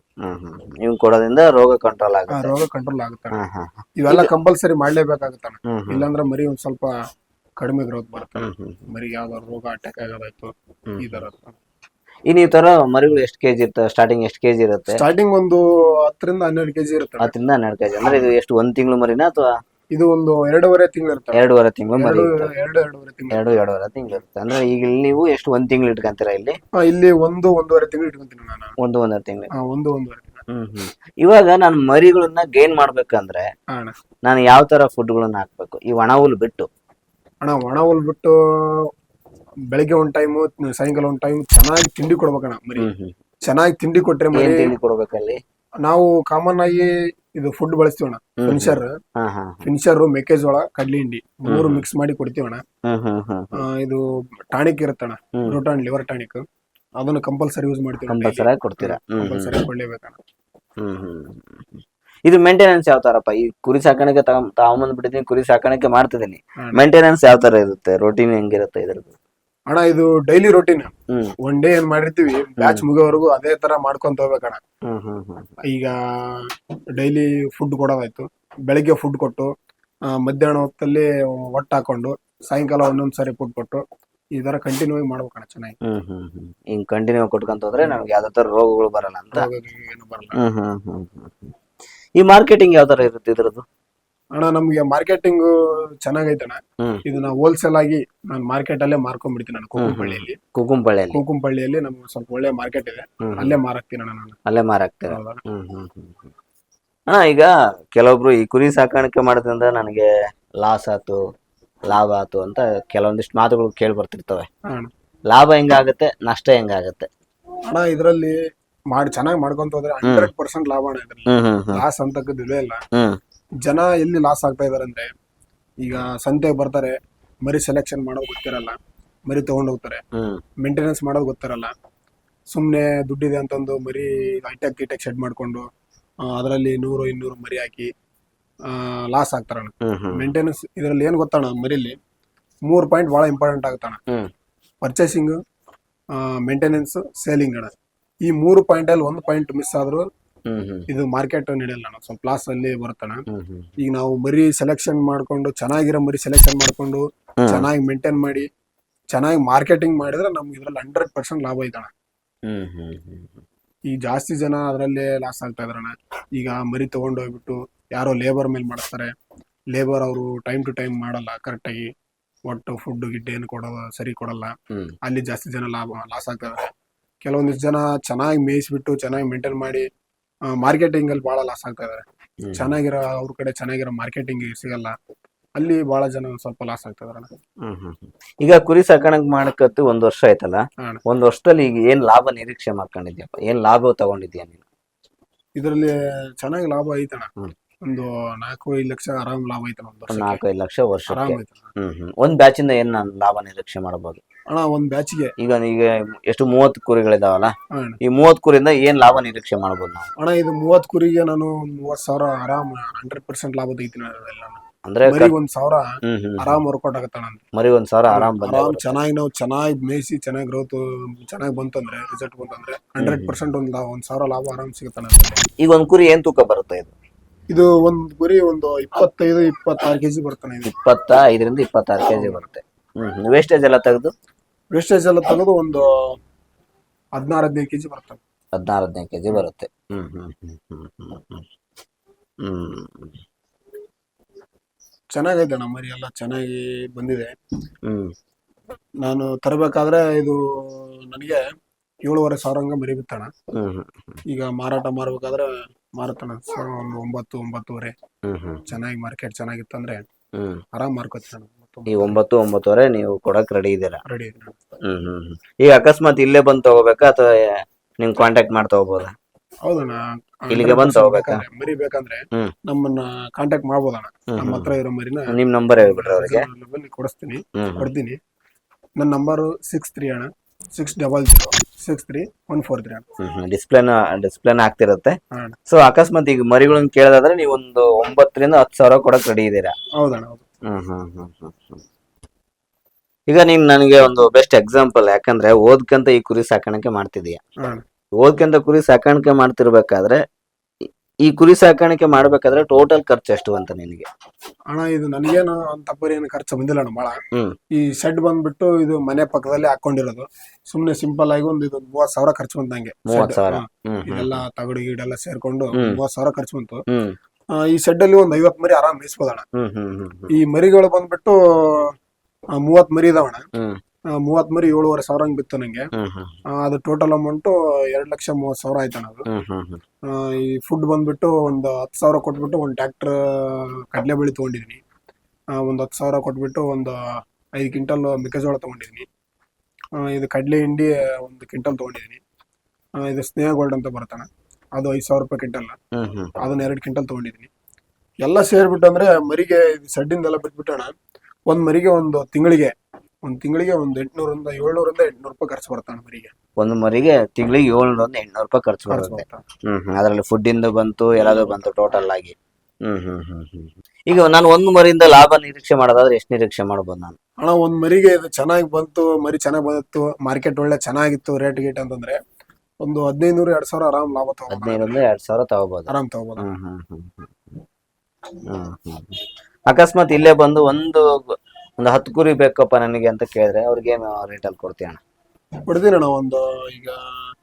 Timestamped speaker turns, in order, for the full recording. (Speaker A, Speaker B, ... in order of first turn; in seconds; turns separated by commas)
Speaker A: 0.2-2.5, Speaker B: 2.3-3.4, Speaker A: 3.3-4.3, Speaker B: 4.0-6.9, Speaker A: 5.7-6.1, Speaker B: 7.6-11.6, Speaker A: 8.4-8.8, Speaker A: 10.9-11.2, Speaker A: 12.3-15.0, Speaker B: 14.9-17.3, Speaker A: 17.2-19.6, Speaker B: 19.9-21.4, Speaker A: 21.4-22.5, Speaker B: 22.0-23.7, Speaker A: 23.3-26.6, Speaker B: 26.8-28.8, Speaker A: 28.8-29.5, Speaker B: 29.5-30.4, Speaker A: 30.5-33.5, Speaker A: 34.2-36.7, Speaker B: 37.4-38.9, Speaker B: 39.7-42.9, Speaker A: 42.8-43.1, Speaker B: 43.5-44.7, Speaker A: 44.3-45.4, Speaker B: 45.8-48.9, Speaker A: 48.4-49.6, Speaker B: 49.6-52.6, Speaker A: 51.5-51.8, Speaker A: 52.9-53.6, Speaker B: 53.6-56.4, Speaker B: 57.0-60.2, Speaker A: 58.1-59.5, Speaker A: 60.8-69.1, Speaker B: 69.7-70.9, Speaker B: 71.4-74.6, Speaker A: 74.9-75.5, Speaker B: 75.7-76.4, Speaker B: 77.0-79.5, Speaker B: 80.1-83.8, Speaker B: 84.4-85.8, Speaker A: 85.8-89.5, Speaker B: 89.3-90.4, Speaker A: 90.4-91.5, Speaker A: 92.2-93.7, Speaker B: 94.4-100.4, Speaker A: 99.8-101.2, Speaker B: 101.1-104.4, Speaker A: 103.3-103.6, Speaker A: 104.5-106.3, Speaker B: 105.1-105.4, Speaker A: 107.1-111.2, Speaker A: 111.9-114.5, Speaker A: 115.3-117.1, Speaker B: 117.7-118.3, Speaker B: 118.9-122.8, Speaker A: 121.3-121.8, Speaker A: 122.9-123.2, Speaker B: 123.6-125.1, Speaker B: 125.8-128.8, Speaker B: 129.3-130.0, Speaker A: 130.2-130.4, Speaker B: 130.6-131.7, Speaker B: 132.5-135.7, Speaker B: 136.3-137.9, Speaker B: 138.7-142.0, Speaker A: 139.8-140.3, Speaker B: 142.7-144.0, Speaker B: 144.8-145.4, Speaker B: 146.4-147.7, Speaker B: 148.3-150.0, Speaker A: 150.5-150.9, Speaker B: 150.9-153.2, Speaker A: 153.3-153.7, Speaker B: 153.8-158.5, Speaker A: 157.4-157.7, Speaker B: 159.1-161.9, Speaker A: 162.5-163.4, Speaker B: 163.9-169.1, Speaker B: 169.7-171.9, Speaker B: 172.5-176.6, Speaker B: 177.2-179.9, Speaker B: 180.5-182.0, Speaker A: 182.4-182.7, Speaker B: 182.5-184.9, Speaker B: 185.6-187.3, Speaker A: 187.6-194.6, Speaker B: 195.6-197.3, Speaker B: 197.9-200.4, Speaker A: 200.1-204.2, Speaker B: 201.1-201.7, Speaker B: 204.5-205.3, Speaker A: 205.4-210.1, Speaker B: 207.7-208.0, Speaker B: 210.2-217.4, Speaker A: 214.9-215.3, Speaker A: 216.1-216.6, Speaker A: 217.5-219.0, Speaker B: 218.1-225.4, Speaker A: 223.0-223.3, Speaker A: 225.6-226.9, Speaker B: 227.5-230.7, Speaker A: 230.7-234.1, Speaker B: 232.1-232.4, Speaker B: 234.7-235.9, Speaker B: 237.2-238.2, Speaker A: 238.5-241.4, Speaker A: 242.4-243.2, Speaker B: 245.1-247.3, Speaker A: 247.9-248.1, Speaker B: 249.0-251.4, Speaker B: 252.1-253.3, Speaker A: 253.6-254.0, Speaker B: 254.3-257.9, Speaker A: 258.3-258.6, Speaker B: 258.7-260.0, Speaker B: 260.8-262.2, Speaker A: 261.9-264.0, Speaker B: 264.1-264.6, Speaker A: 264.9-269.1, Speaker B: 269.6-278.2, Speaker A: 270.5-271.4, Speaker A: 274.4-274.7, Speaker A: 275.3-276.4, Speaker A: 277.6-277.9, Speaker B: 279.0-283.1, Speaker A: 283.2-289.8, Speaker B: 285.3-285.6, Speaker B: 290.0-290.4, Speaker A: 290.7-291.8, Speaker A: 293.3-297.4, Speaker A: 298.2-300.2, Speaker A: 301.2-304.1, Speaker B: 304.7-307.2, Speaker B: 307.8-316.8, Speaker A: 313.1-314.4, Speaker A: 315.7-316.0, Speaker A: 316.9-317.2, Speaker B: 317.6-319.5, Speaker A: 319.5-320.3, Speaker B: 320.3-321.9, Speaker B: 322.6-323.4, Speaker B: 324.2-325.9, Speaker A: 326.0-326.4, Speaker B: 326.6-329.3, Speaker A: 329.3-329.8, Speaker B: 330.1-334.8, Speaker B: 335.6-337.0, Speaker B: 337.6-339.1, Speaker B: 340.0-342.2, Speaker B: 343.0-345.8, Speaker A: 345.9-346.4, Speaker B: 346.4-347.5, Speaker B: 348.2-350.9, Speaker B: 351.5-352.7, Speaker B: 353.3-356.3, Speaker A: 356.6-362.4, Speaker B: 358.9-359.4, Speaker A: 362.9-367.2, Speaker B: 367.4-372.2, Speaker B: 372.8-375.0, Speaker A: 374.5-375.9, Speaker B: 375.9-376.4, Speaker A: 376.4-377.3, Speaker A: 378.5-385.0, Speaker B: 385.7-387.0